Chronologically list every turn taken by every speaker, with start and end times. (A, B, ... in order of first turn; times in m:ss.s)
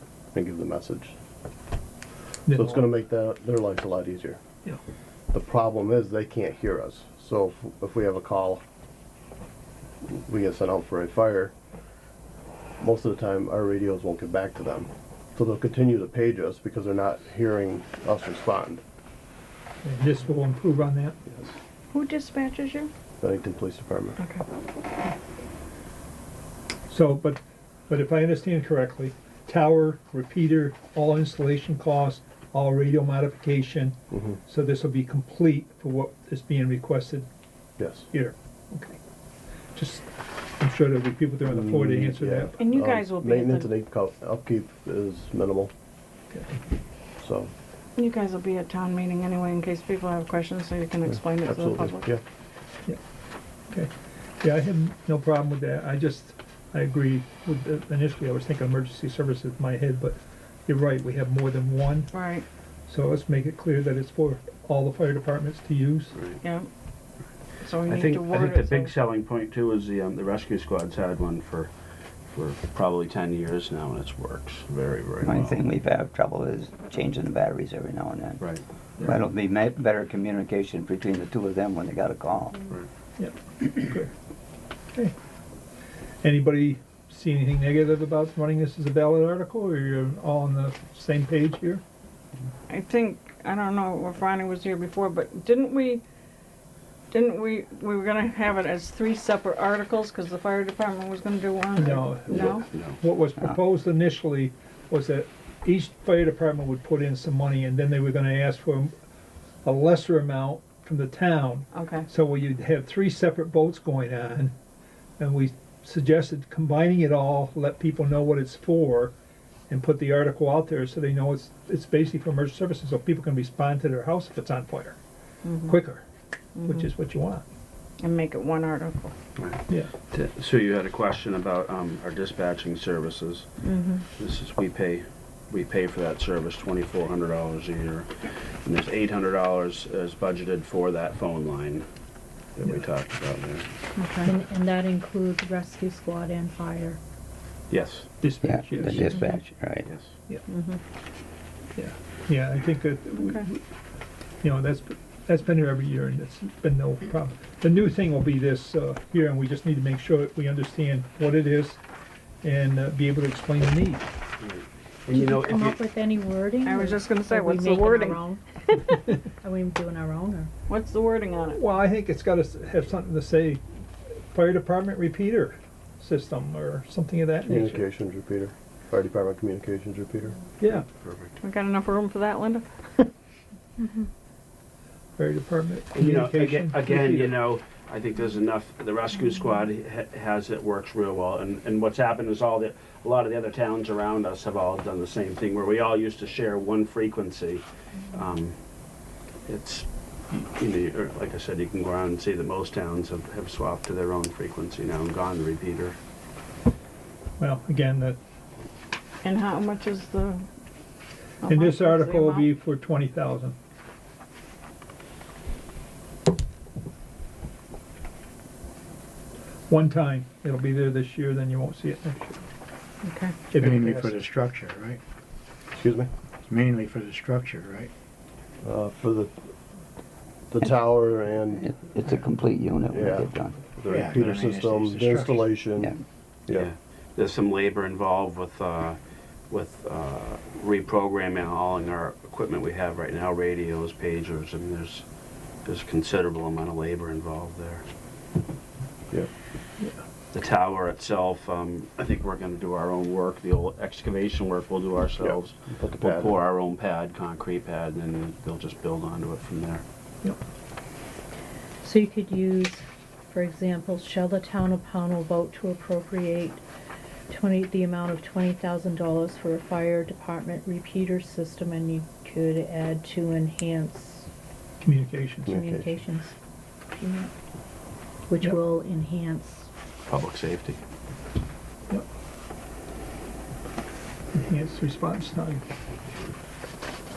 0:00.3-0:01.2 A
0:02.5-0:02.8 B
0:02.5-0:04.4 A
0:05.3-0:08.6 A
0:10.2-0:11.5 A
0:12.8-0:18.8 A
0:19.8-0:21.2 B
0:21.9-0:22.9 C
0:23.2-0:24.2 A
0:24.2-0:24.4 C
0:26.9-0:37.3 B
0:34.1-0:34.4 A
0:37.8-0:38.1 A
0:38.1-0:39.0 B
0:39.7-0:42.6 B
0:41.5-0:45.7 A
0:42.6-0:43.7 C
0:47.2-0:47.5 A
0:48.0-0:52.1 C
0:51.1-0:52.2 A
0:53.7-1:02.2 B
1:02.1-1:02.4 C
1:02.9-1:06.2 B
1:06.1-1:06.4 D
1:06.4-1:06.7 C
1:07.6-1:08.9 C
1:07.8-1:11.7 D
1:12.3-1:15.6 D
1:15.2-1:18.5 E
1:19.0-1:22.6 E
1:23.2-1:24.1 B
1:26.2-1:31.8 B
1:32.7-1:36.0 C
1:37.1-1:42.6 C
1:41.7-1:48.9 B
1:42.7-1:43.0 D
1:49.6-1:54.5 B
1:51.7-1:52.1 C
1:55.2-1:59.1 B
1:59.7-2:05.0 B
2:05.4-2:05.8 C
2:05.6-2:06.0 B
2:06.6-2:06.9 C
2:06.6-2:07.4 B
2:08.0-2:09.1 C
2:09.4-2:21.9 D
2:13.6-2:14.0 C
2:22.5-2:23.7 D
2:24.0-2:24.3 C
2:24.2-2:27.0 F
2:27.7-2:28.1 D
2:28.2-2:29.2 B
2:28.4-2:29.9 E
2:29.8-2:30.1 D
2:30.5-2:30.8 C
2:31.7-2:33.6 B
2:33.2-2:33.5 C
2:34.4-2:41.8 B
2:42.4-2:44.1 B
2:44.4-2:45.8 D
2:45.1-2:50.5 F
2:46.6-2:48.8 C
2:50.7-2:51.6 C
2:51.5-2:53.6 B
2:54.3-2:57.8 B
2:57.5-3:00.4 A
3:00.6-3:00.9 B
3:00.7-3:01.4 D
3:01.4-3:03.1 C
3:05.2-3:07.4 B
3:05.9-3:18.6 D
3:19.4-3:26.0 D
3:27.4-3:28.2 B
3:29.2-3:30.4 C
3:31.4-3:32.5 C
3:31.4-3:33.5 B
3:39.7-3:42.4 B
3:43.0-3:43.3 C
3:43.5-3:44.1 B
3:43.6-3:45.0 G
3:45.7-3:46.1 A
3:46.5-3:47.9 G
3:48.6-3:49.4 A
3:50.5-3:51.7 A
3:51.6-3:53.6 E
3:52.9-3:56.0 A
3:53.9-3:55.5 G
3:56.5-3:59.0 D
3:59.5-4:05.0 D
4:05.6-4:07.9 D
4:10.3-4:19.8 D
4:15.2-4:16.4 A
4:21.8-4:26.6 F
4:27.3-4:34.3 F
4:34.8-4:35.6 B
4:35.4-4:35.9 A
4:35.5-4:36.3 F
4:36.9-4:37.3 F
4:38.3-4:39.7 F
4:40.1-4:40.8 D
4:44.3-4:45.6 B